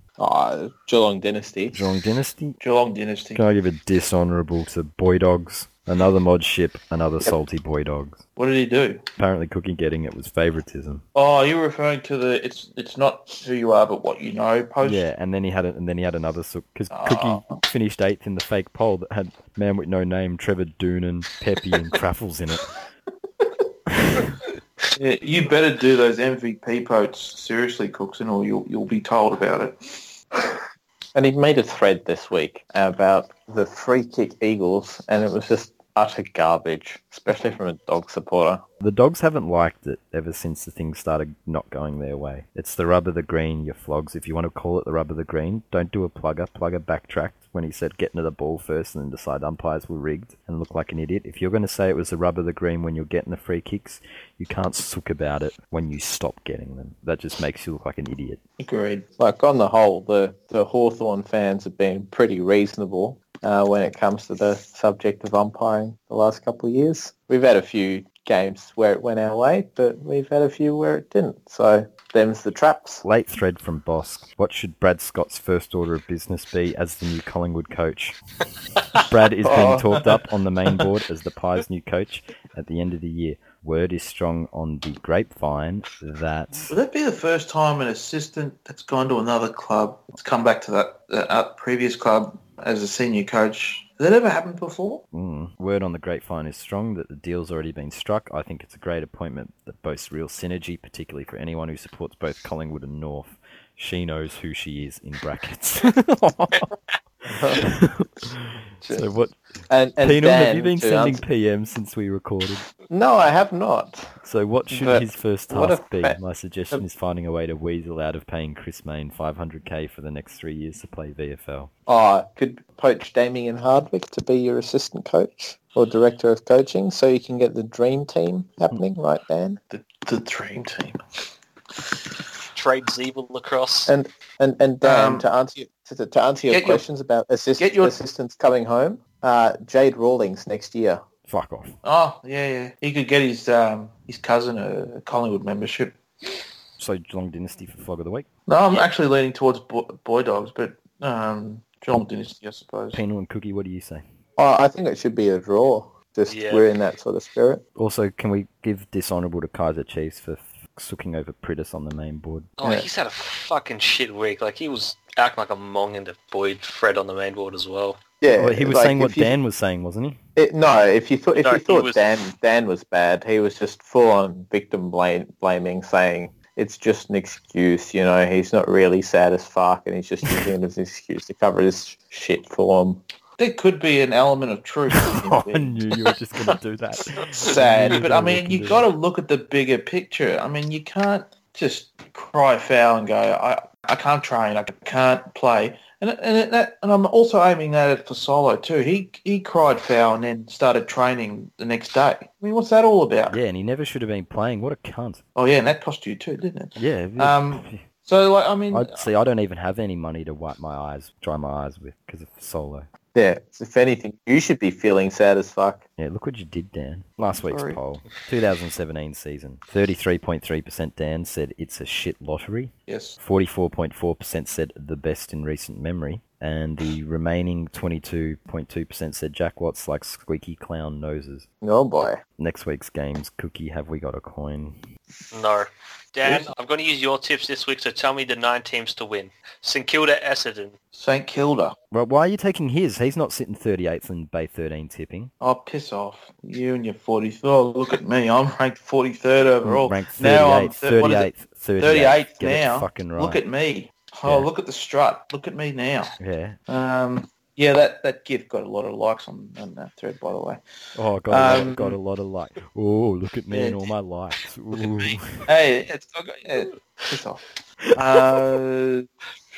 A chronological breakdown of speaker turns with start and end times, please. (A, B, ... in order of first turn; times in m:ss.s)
0:00.2-0:01.8 A
0:01.7-0:02.6 B
0:02.6-0:03.4 C
0:03.3-0:08.2 B
0:08.4-0:09.0 C
0:09.2-0:11.0 B
0:11.1-0:15.0 C
0:14.8-0:22.7 B
0:16.9-0:17.6 C
0:24.0-0:24.2 B
0:24.9-0:30.1 C
0:31.1-0:38.6 A
0:38.8-0:58.4 B
0:58.6-0:59.0 C
0:59.2-1:13.0 A
1:13.0-1:18.2 B
1:19.0-1:26.7 B
1:19.5-1:20.1 C
1:26.7-1:35.0 C
1:35.1-1:46.7 B
1:47.3-1:47.7 A
1:47.3-1:49.4 B
1:49.7-1:51.2 A
1:50.0-1:52.6 B
1:52.9-1:54.1 A
1:54.2-2:01.7 B
1:54.7-1:56.2 A
2:01.9-2:09.6 A
2:09.7-2:11.0 C
2:12.5-2:13.9 D
2:13.9-2:21.0 A
2:14.8-2:15.3 C
2:16.5-2:16.8 C
2:17.6-2:17.9 C
2:21.3-2:21.7 B
2:21.8-2:26.0 C
2:26.8-2:28.3 B
2:28.5-2:33.0 C
2:32.9-2:34.0 B
2:34.4-2:37.6 A
2:36.3-2:36.6 D
2:37.8-2:42.5 B
2:42.6-2:48.0 D
2:48.2-2:49.4 A
2:48.3-2:50.2 B
2:50.4-3:03.0 A
2:51.4-2:52.1 D
3:03.4-3:05.8 C
3:05.0-3:08.9 B
3:07.4-3:23.4 C
3:23.3-3:25.2 B
3:25.4-3:29.0 C
3:26.8-3:27.8 B
3:28.7-3:32.9 B
3:33.1-3:35.8 A
3:36.0-3:51.5 B
3:37.4-3:37.8 C
3:42.9-3:43.2 C
3:51.6-3:52.2 A
3:52.4-3:54.8 B
3:55.3-4:00.7 D
3:56.2-3:56.5 C
4:00.9-4:01.7 C
4:01.9-4:05.3 B
4:05.4-4:16.1 C
4:09.6-4:13.4 B
4:14.2-4:14.5 B
4:16.2-4:16.6 B
4:16.7-4:20.6 C
4:20.9-4:25.4 B
4:21.3-4:22.0 C
4:23.5-4:23.9 C
4:24.7-4:29.0 C